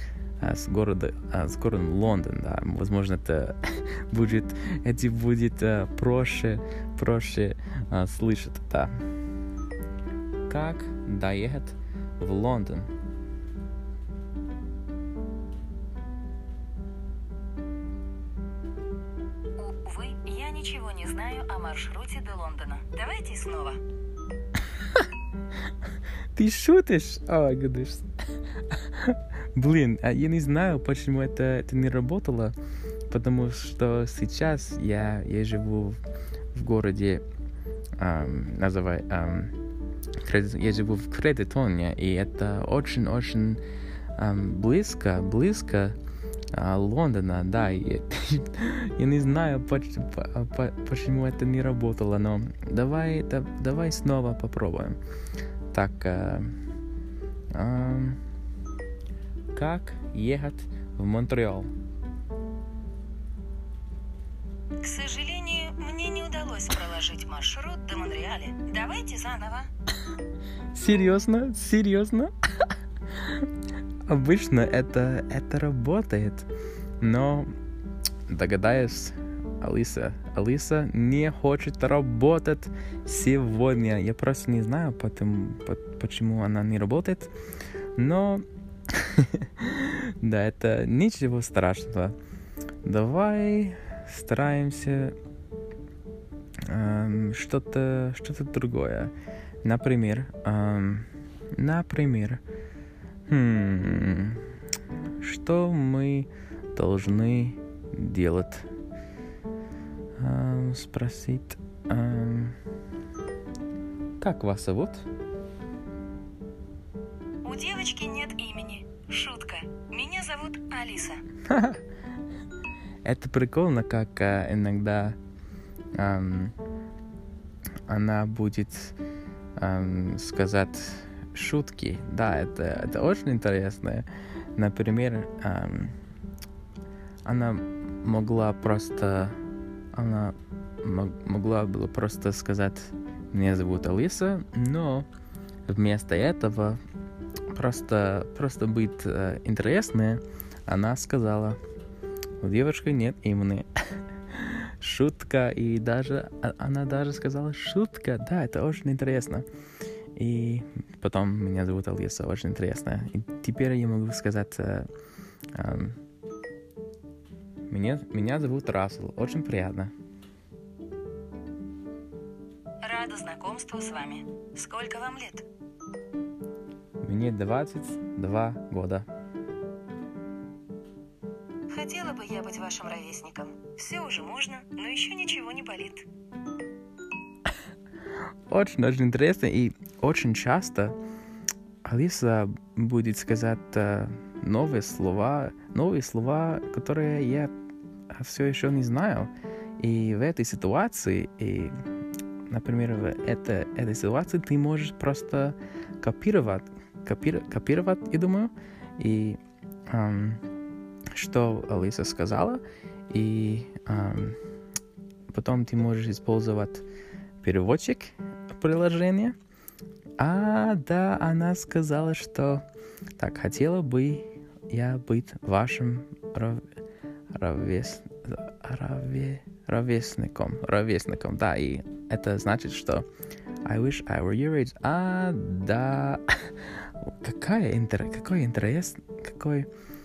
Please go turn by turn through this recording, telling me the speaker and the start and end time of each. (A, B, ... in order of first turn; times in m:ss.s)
0:00.4-0:08.9 A
0:10.5-0:12.9 A
0:19.6-0:23.8 B
0:26.3-0:28.0 A
0:28.7-0:32.5 A
0:33.1-0:36.0 A
0:36.5-0:37.2 A
0:38.0-0:39.5 A
0:40.2-0:43.6 A
0:44.2-0:46.0 A
0:46.5-0:55.0 A
0:55.7-0:56.5 A
0:57.5-0:58.2 A
0:59.5-1:01.7 A
1:04.8-1:09.7 B
1:10.7-1:13.5 A
1:14.0-1:16.5 A
1:17.0-1:17.5 A
1:18.3-1:27.3 A
1:28.0-1:32.2 A
1:32.8-1:35.1 A
1:36.6-1:39.1 A
1:39.6-1:42.4 A
1:43.3-1:44.4 A
1:45.2-1:48.7 A
1:50.2-1:52.6 A
1:54.2-1:55.0 A
1:57.4-2:01.2 B
2:01.5-2:01.8 A
2:03.0-2:05.2 A
2:06.0-2:06.5 A
2:07.9-2:09.0 A
2:09.6-2:16.0 A
2:17.2-2:19.4 A
2:19.9-2:25.0 A
2:25.7-2:26.8 A
2:27.5-2:31.6 A
2:32.4-2:33.6 A
2:34.3-2:39.4 A
2:40.2-2:44.9 A
2:45.5-2:46.0 A
2:47.7-2:49.9 A
2:52.8-2:55.5 B
2:57.0-2:59.0 A
3:01.7-3:06.1 B
3:08.5-3:11.0 A
3:11.8-3:17.5 A
3:18.1-3:21.7 A
3:22.5-3:30.4 A
3:31.1-3:34.4 A
3:35.3-3:36.8 A
3:37.4-3:39.4 A
3:40.2-3:42.6 A
3:43.2-3:46.6 A
3:47.3-3:53.0 A
3:53.6-3:59.7 A